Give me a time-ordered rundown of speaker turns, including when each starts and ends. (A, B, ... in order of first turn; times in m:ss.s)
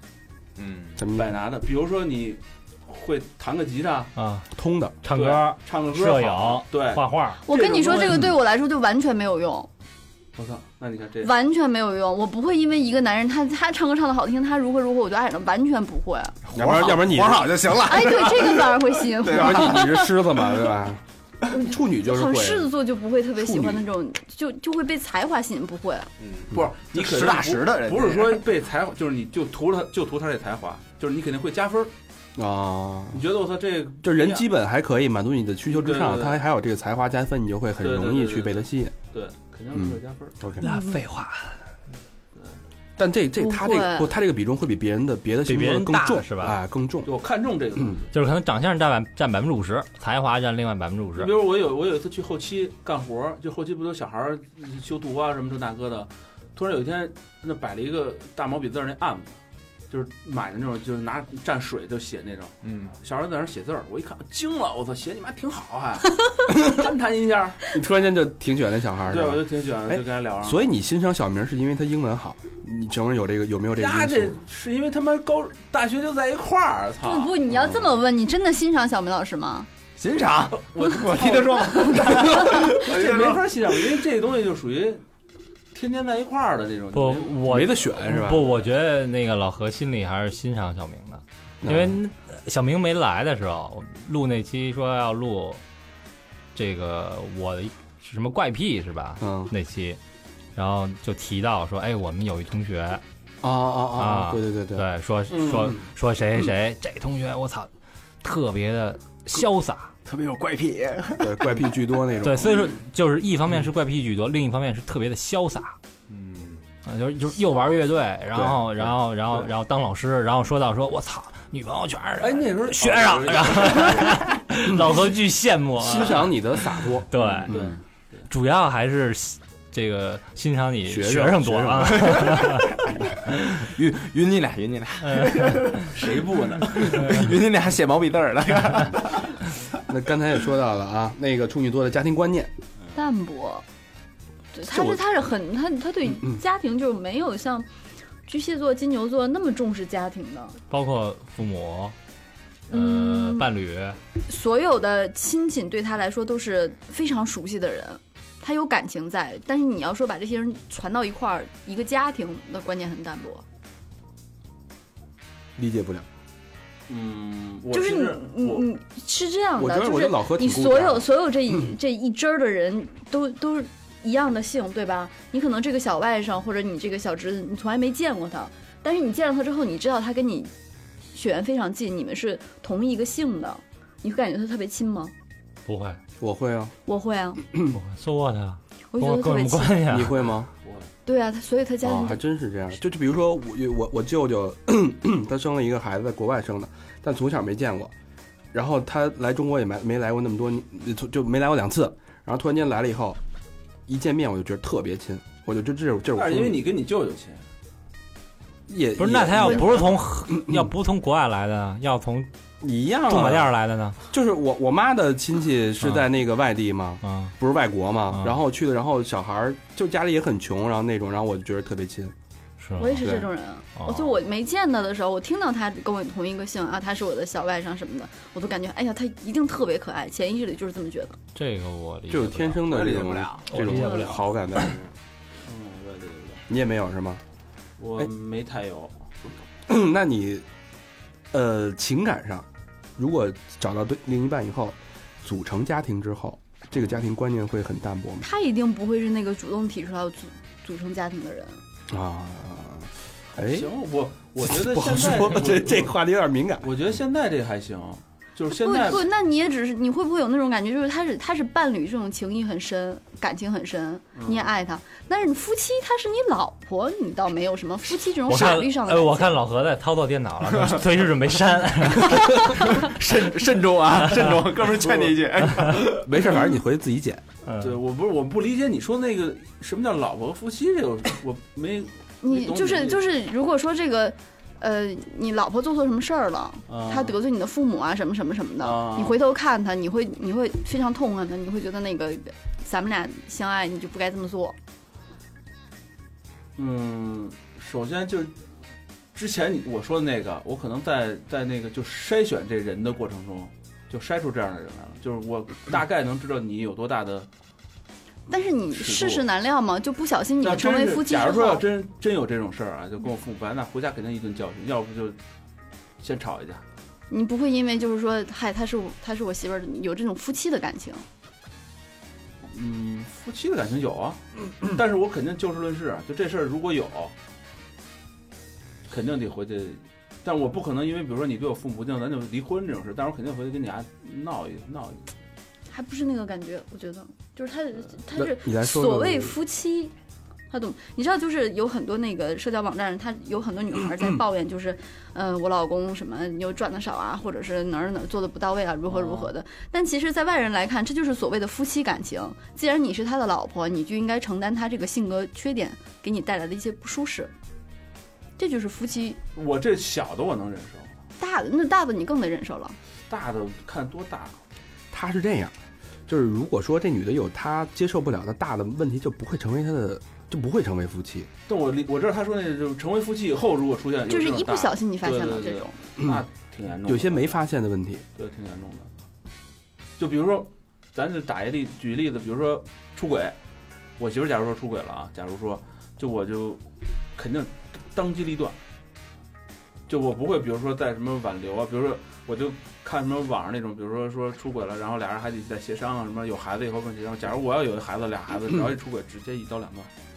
0:00.6-0:01.0 A
0:01.0-0:01.3 B
0:01.1-0:04.1 C
0:04.2-0:04.5 D
0:04.5-0:05.0 B
0:05.0-0:07.4 D
0:05.1-0:08.2 C
0:07.4-0:09.7 E
0:10.4-0:11.3 C
0:11.2-0:16.4 E
0:16.4-0:19.9 A
0:16.5-0:17.6 B
0:17.8-0:20.1 E
0:19.2-0:22.7 B
0:21.5-0:26.1 E
0:23.4-0:23.8 B
0:26.2-0:28.4 A
0:26.5-0:31.9 C
0:32.4-0:33.2 B
0:33.1-0:34.5 C
0:34.0-0:38.9 B
0:35.7-0:36.4 C
0:37.8-0:40.4 C
0:39.7-0:40.6 B
0:40.6-0:41.6 D
0:43.0-0:47.1 B
0:43.4-0:44.1 E
0:45.5-0:46.6 D
0:47.0-0:48.1 C
0:48.1-0:51.3 D
0:51.2-0:59.4 C
0:59.9-1:07.6 C
1:02.6-1:02.9 A
1:07.7-1:14.4 B
1:09.1-1:10.7 C
1:13.8-1:17.3 C
1:17.0-1:19.7 E
1:17.5-1:17.9 B
1:20.0-1:23.6 A
1:20.7-1:25.0 C
1:25.7-1:27.6 C
1:26.9-1:35.6 D
1:27.4-1:28.5 B
1:28.3-1:28.6 C
1:31.6-1:32.0 B
1:36.5-1:40.0 D
1:39.2-1:39.5 B
1:40.5-1:43.0 D
1:43.4-1:44.8 B
1:44.0-1:47.7 D
1:45.3-1:45.7 C
1:48.2-1:49.9 D
1:50.0-1:51.6 A
1:51.2-1:52.7 B
1:52.2-1:55.8 D
1:56.1-1:56.6 A
1:56.8-2:07.6 D
1:58.3-1:58.9 B
2:02.2-2:04.2 C
2:05.8-2:07.7 B
2:07.5-2:08.2 C
2:08.3-2:12.6 D
2:10.9-2:12.4 B
2:11.9-2:12.6 A
2:13.4-2:16.2 A
2:15.1-2:15.4 D
2:15.9-2:17.1 C
2:16.7-2:19.4 A
2:19.9-2:22.5 B
2:22.9-2:23.6 E
2:24.5-2:27.7 E
2:24.6-2:25.0 B
2:28.2-2:30.6 E
2:30.7-2:32.0 D
2:32.7-2:34.0 D
2:32.7-2:33.5 E
2:34.2-2:43.4 E
2:45.6-2:46.0 B
2:46.9-2:48.7 C
2:47.7-3:00.5 E
2:49.6-2:51.6 B
3:01.1-3:05.1 E
3:05.6-3:06.0 D
3:06.2-3:06.7 B
3:06.8-3:07.4 E
3:07.7-3:10.3 D
3:08.9-3:09.9 E
3:09.8-3:10.5 B
3:10.6-3:10.9 C
3:11.0-3:12.2 E
3:11.8-3:17.9 B
3:18.5-3:23.2 B
3:23.9-3:26.6 B
3:26.1-3:27.4 C
3:28.7-3:30.7 B
3:29.0-3:32.3 D
3:32.6-3:33.5 B
3:33.1-3:34.0 D
3:34.1-3:42.1 B
3:35.8-3:36.1 D
3:37.0-3:37.3 D
3:38.1-3:38.4 D
3:42.6-3:43.2 D
3:42.8-3:51.2 E
3:43.0-3:43.2 B
3:43.7-3:44.2 D
3:51.3-3:52.8 D
3:52.1-3:54.8 B
3:52.7-3:53.6 A
3:53.5-3:54.3 D
3:55.4-3:56.4 C
3:56.5-3:57.2 B
3:57.8-3:59.1 C
3:59.7-4:00.4 B
4:01.3-4:08.3 B
4:08.2-4:11.6 E
4:11.9-4:13.7 B
4:13.4-4:16.0 C
4:14.4-4:16.7 B
4:16.6-4:19.1 C
4:18.6-4:29.4 E
4:24.1-4:24.5 C
4:28.2-4:32.9 D
4:32.3-4:36.2 A
4:34.1-4:34.4 D
4:35.9-4:37.2 B
4:37.4-4:37.8 D
4:37.6-4:43.0 C
4:42.2-4:54.6 E
4:46.7-4:47.1 C
4:48.6-4:49.2 C
4:56.6-4:58.4 C
4:59.1-5:07.3 C
5:08.3-5:11.6 E
5:08.7-5:09.2 C
5:10.4-5:15.2 C
5:16.0-5:16.6 C
5:17.1-5:21.0 E
5:22.5-5:27.1 C
5:28.9-5:35.1 C
5:35.7-5:39.9 E
5:38.1-5:39.4 B
5:40.5-5:57.3 E
5:58.4-5:59.2 E
5:59.3-6:01.0 C
6:01.2-6:02.8 E
6:03.1-6:04.4 C
6:04.9-6:05.5 B
6:06.1-6:11.3 B
6:11.5-6:17.4 C
6:14.1-6:15.8 E
6:16.0-6:16.2 B
6:16.8-6:18.0 B
6:18.2-6:18.9 C
6:20.0-6:23.4 C
6:24.0-6:26.6 C
6:27.2-6:28.6 C
6:29.9-6:39.9 C